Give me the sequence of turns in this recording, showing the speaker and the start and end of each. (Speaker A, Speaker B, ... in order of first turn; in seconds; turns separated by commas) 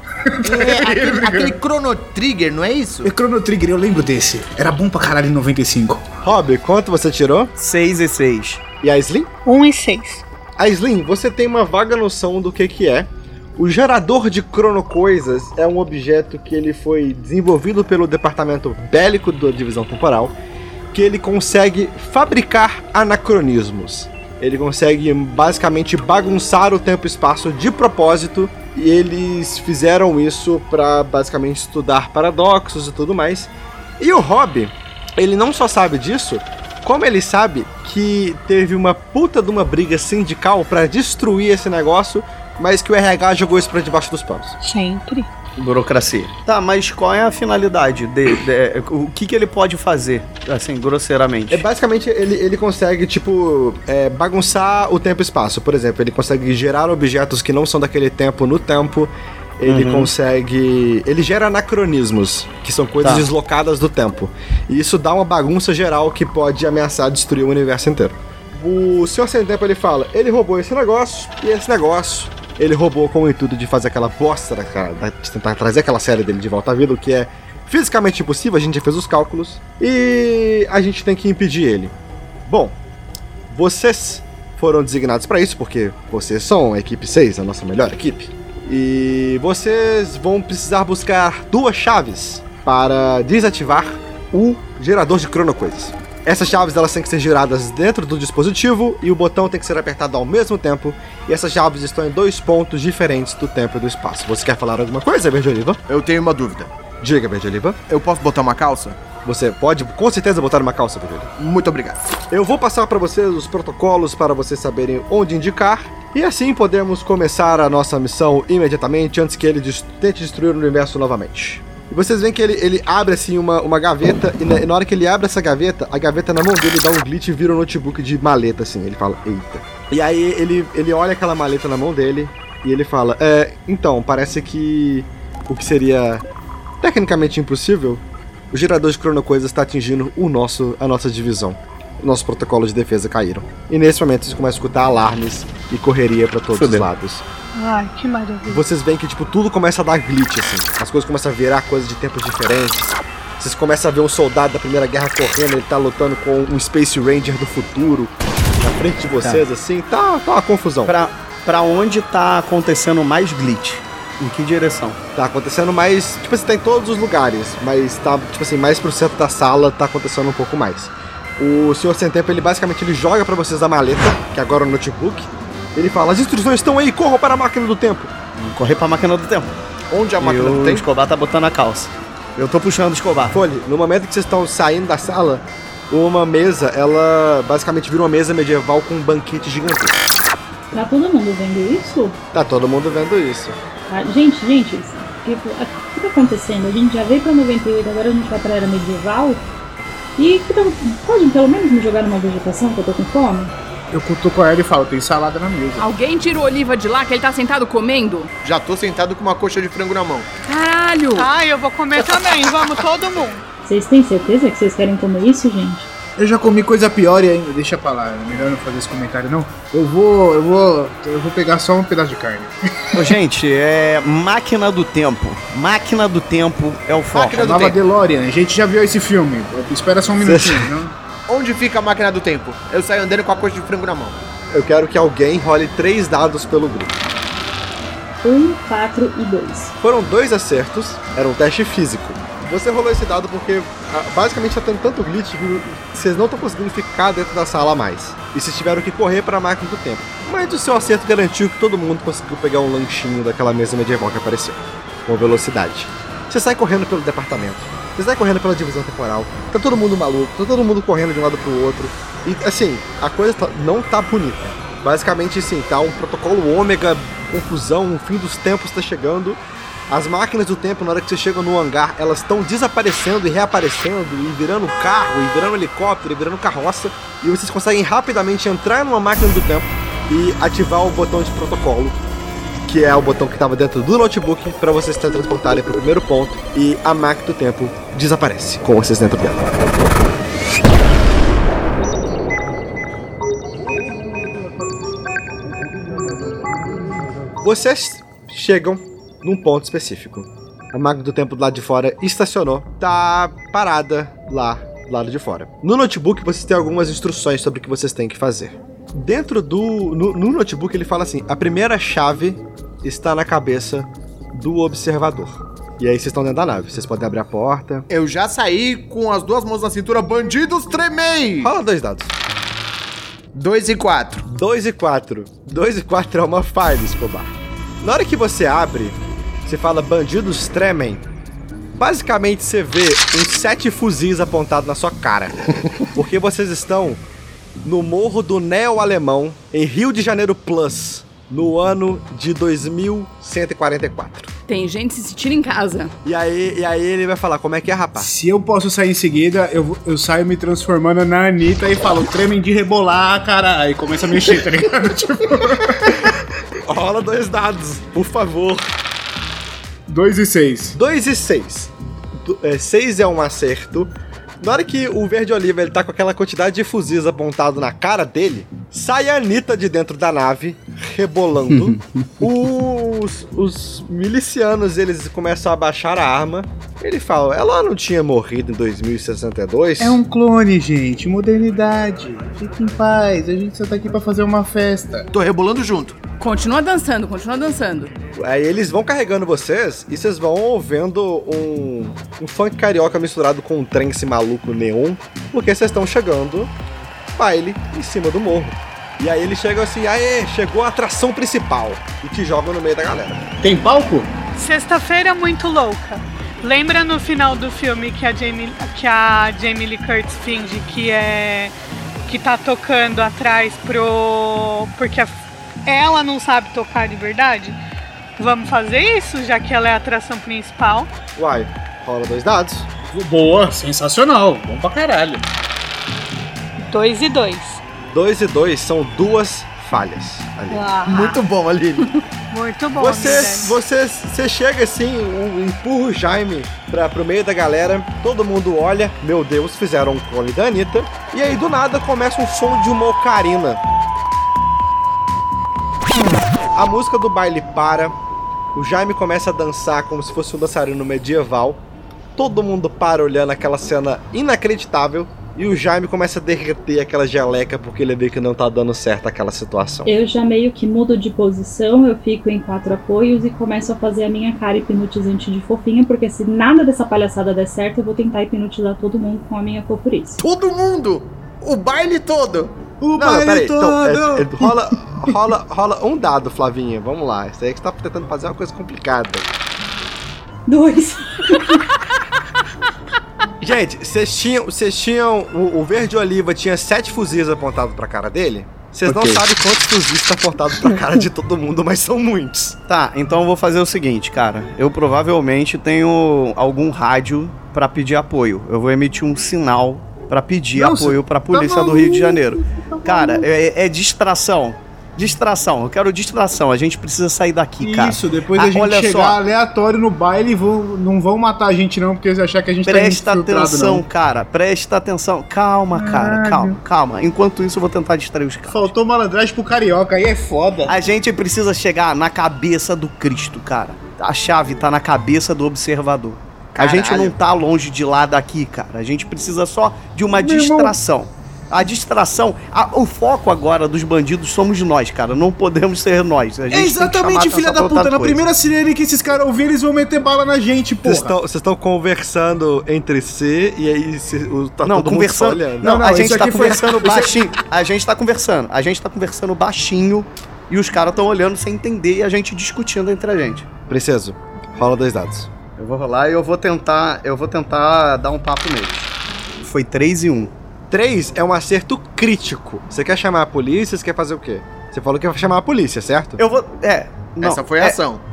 Speaker A: 0.2-1.6, Speaker B: 0.4-3.1, Speaker A: 3.0-6.0, Speaker C: 6.2-7.5, Speaker D: 7.6-8.6, Speaker C: 8.8-9.3, Speaker E: 9.4-10.2, Speaker C: 10.6-20.4, Speaker C: 20.9-44.5, Speaker E: 44.6-45.3, Speaker D: 45.6-51.6, Speaker C: 51.5-82.0, Speaker D: 59.7-60.1, Speaker D: 63.0-63.3, Speaker C: 82.5-82.8, Speaker C: 83.5-105.8, Speaker B: 105.9-106.7, Speaker C: 107.0-107.8, Speaker B: 107.9-109.0, Speaker C: 109.2-111.3, Speaker B: 111.4-112.1, Speaker C: 112.3-136.2, Speaker C: 136.8-147.2, Speaker D: 146.5-146.9, Speaker E: 147.6-148.6, Speaker C: 148.5-160.9, Speaker D: 160.9-165.0, Speaker C: 165.2-178.1, Speaker D: 178.4-179.5, Speaker B: 179.9-180.9, Speaker D: 180.2-183.4, Speaker C: 183.3-190.0, Speaker F: 190.7-192.2, Speaker C: 192.3-193.6, Speaker F: 193.9-199.4, Speaker F: 200.2-203.5, Speaker A: 203.9-205.9, Speaker G: 205.8-208.3, Speaker B: 208.4-210.3, Speaker G: 210.4-211.3, Speaker E: 211.2-213.4, Speaker F: 213.7-215.9, Speaker A: 216.2-223.0, Speaker D: 222.9-227.4, Speaker B: 227.1-227.8, Speaker A: 227.3-230.9, Speaker C: 230.2-230.8, Speaker B: 231.3-234.2, Speaker C: 234.5-237.0, Speaker F: 238.2-239.7, Speaker C: 239.8-282.0, Speaker C: 282.7-289.6, Speaker C: 297.4-317.9, Speaker B: 317.9-321.5, Speaker C: 321.4-322.2, Speaker B: 323.3-324.2, Speaker C: 324.3-331.1, Speaker C: 331.8-337.0, Speaker C: 337.6-344.3, Speaker G: 344.5-345.9, Speaker C: 346.0-348.1, Speaker A: 348.0-356.1, Speaker C: 356.7-358.7, Speaker A: 359.9-360.8, Speaker C: 360.8-380.0, Speaker A: 379.8-385.1, Speaker B: 385.1-386.0, Speaker G: 386.2-387.9, Speaker C: 388.2-396.5, Speaker C: 397.2-403.3, Speaker A: 403.4-404.1, Speaker E: 404.4-411.6, Speaker E: 412.1-417.6, Speaker E: 418.2-420.9, Speaker C: 421.2-422.7, Speaker A: 422.9-425.2, Speaker E: 426.6-427.6, Speaker C: 427.9-430.7, Speaker E: 430.5-431.2, Speaker B: 430.9-431.9, Speaker E: 432.3-433.6, Speaker C: 432.7-443.6, Speaker C: 446.6-448.0, Speaker C: 448.5-451.6, Speaker C: 452.2-459.9, Speaker F: 459.9-470.2, Speaker B: 470.2-472.6, Speaker A: 472.8-475.1, Speaker C: 473.0-479.3, Speaker F: 480.5-481.6, Speaker C: 483.4-492.6, Speaker A: 488.9-489.2, Speaker D: 492.7-509.2, Speaker A: 500.6-503.3, Speaker A: 507.6-513.9, Speaker D: 512.7-518.7, Speaker A: 515.7-516.6, Speaker A: 518.5-520.8, Speaker D: 520.7-538.2, Speaker B: 526.6-527.1, Speaker A: 530.2-530.8, Speaker A: 536.5-541.1, Speaker C: 540.8-547.0, Speaker D: 544.6-553.5, Speaker A: 545.6-547.1, Speaker C: 553.7-555.3, Speaker D: 555.6-560.3, Speaker C: 560.7-566.2, Speaker D: 566.2-567.8, Speaker B: 567.2-568.0